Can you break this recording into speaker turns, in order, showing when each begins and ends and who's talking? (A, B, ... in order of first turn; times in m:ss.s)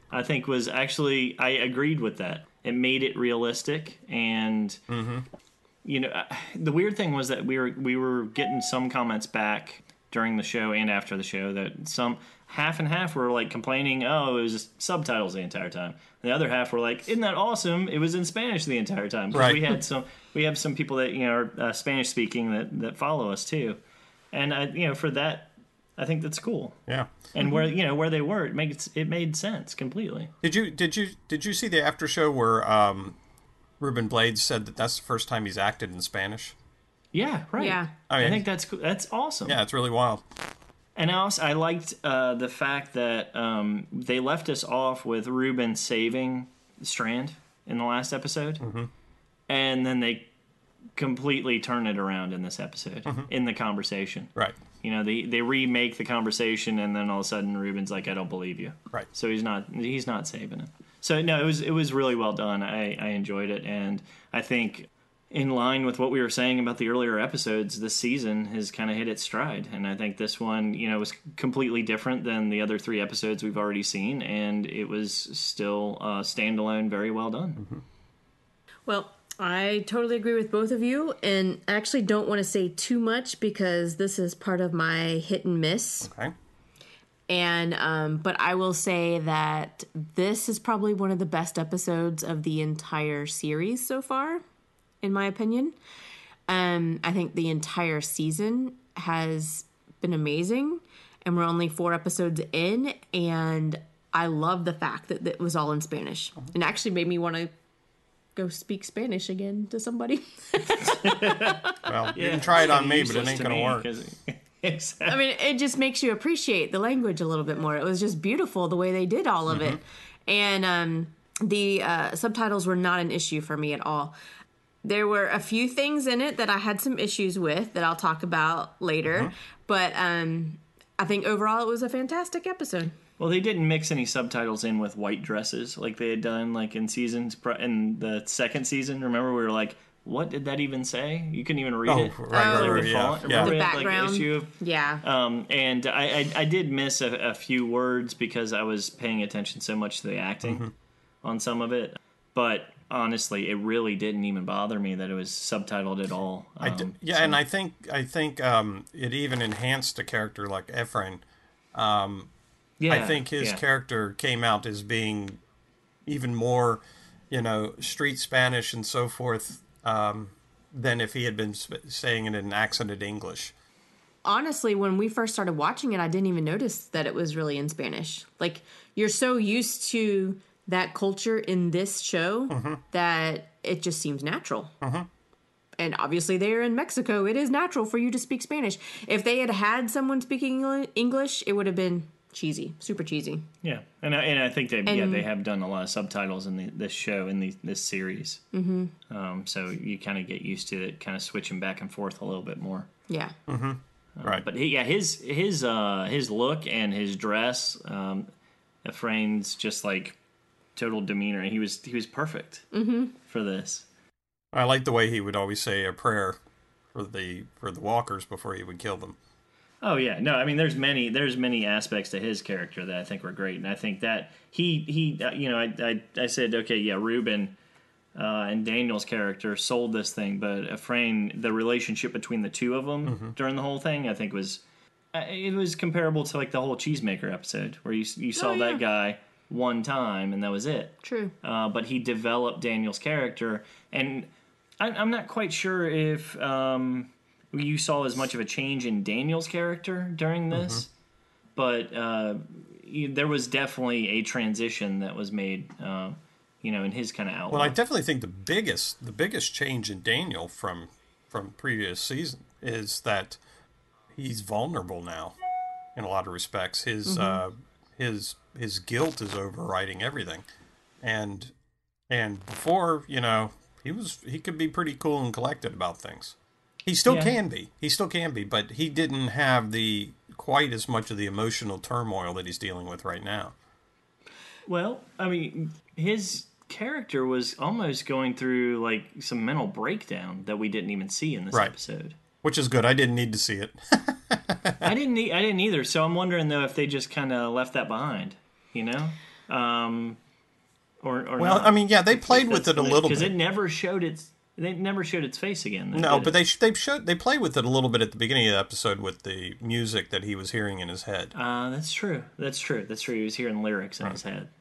0:00.1-0:04.8 A
0:04.9-0:05.3 B
0:05.8-0:23.8 A
0:19.3-0:19.8 B
0:24.3-0:26.8 A
0:27.3-0:30.3 A
0:30.4-0:33.2 B
0:33.8-0:36.6 B
0:37.1-0:39.6 A
0:37.6-0:37.9 C
0:38.1-0:38.4 B
0:39.4-0:40.2 B
0:41.0-0:48.6 A
0:48.6-0:48.9 B
0:49.5-0:50.3 A
0:51.0-1:17.6 A
1:17.6-1:17.8 B
1:18.9-1:26.1 C
1:26.0-1:26.3 B
1:27.3-1:34.4 C
1:35.0-1:35.8 C
1:36.5-1:47.5 C
1:48.4-1:51.5 C
1:50.9-1:51.6 A
1:51.8-1:53.9 B
1:52.1-1:55.2 A
1:55.1-2:04.2 C
1:59.5-1:59.8 B
2:04.8-2:12.9 C
2:13.2-2:30.6 A
2:21.9-2:23.6 B
2:22.3-2:25.0 C
2:30.4-2:30.7 B
2:31.2-2:37.4 A
2:36.6-2:42.3 B
2:42.8-2:43.6 A
2:42.9-2:45.4 B
2:46.0-2:53.5 B
2:54.2-3:04.7 C
3:02.5-3:02.8 B
3:04.8-3:05.1 B
3:05.8-3:13.4 C
3:13.6-3:18.4 A
3:14.9-3:15.2 C
3:18.5-3:18.9 C
3:19.1-3:22.9 A
3:23.1-3:23.4 C
3:23.5-3:24.4 B
3:24.2-3:28.3 A
3:28.8-3:30.2 A
3:30.8-3:32.7 A
3:32.7-3:33.1 C
3:33.3-3:33.9 A
3:34.5-3:36.4 B
3:36.9-3:39.2 B
3:39.8-3:47.5 A
3:48.1-3:54.6 A
3:53.0-3:53.3 B
3:55.1-4:04.3 A
3:58.4-3:58.8 C
4:01.0-4:01.3 C
4:04.8-4:10.9 A
4:10.5-4:10.8 B
4:11.6-4:17.8 A
4:17.5-4:23.4 B
4:24.1-4:25.4 B
4:25.9-4:30.4 B
4:27.0-4:27.4 C
4:31.0-4:31.5 B
4:32.1-4:43.5 B
4:37.1-4:37.4 A
4:44.6-4:52.2 A
4:52.4-4:54.9 B
4:54.8-5:00.2 A
5:01.0-5:06.4 A
5:01.4-5:03.3 B
5:05.9-5:11.3 B
5:11.3-5:14.5 A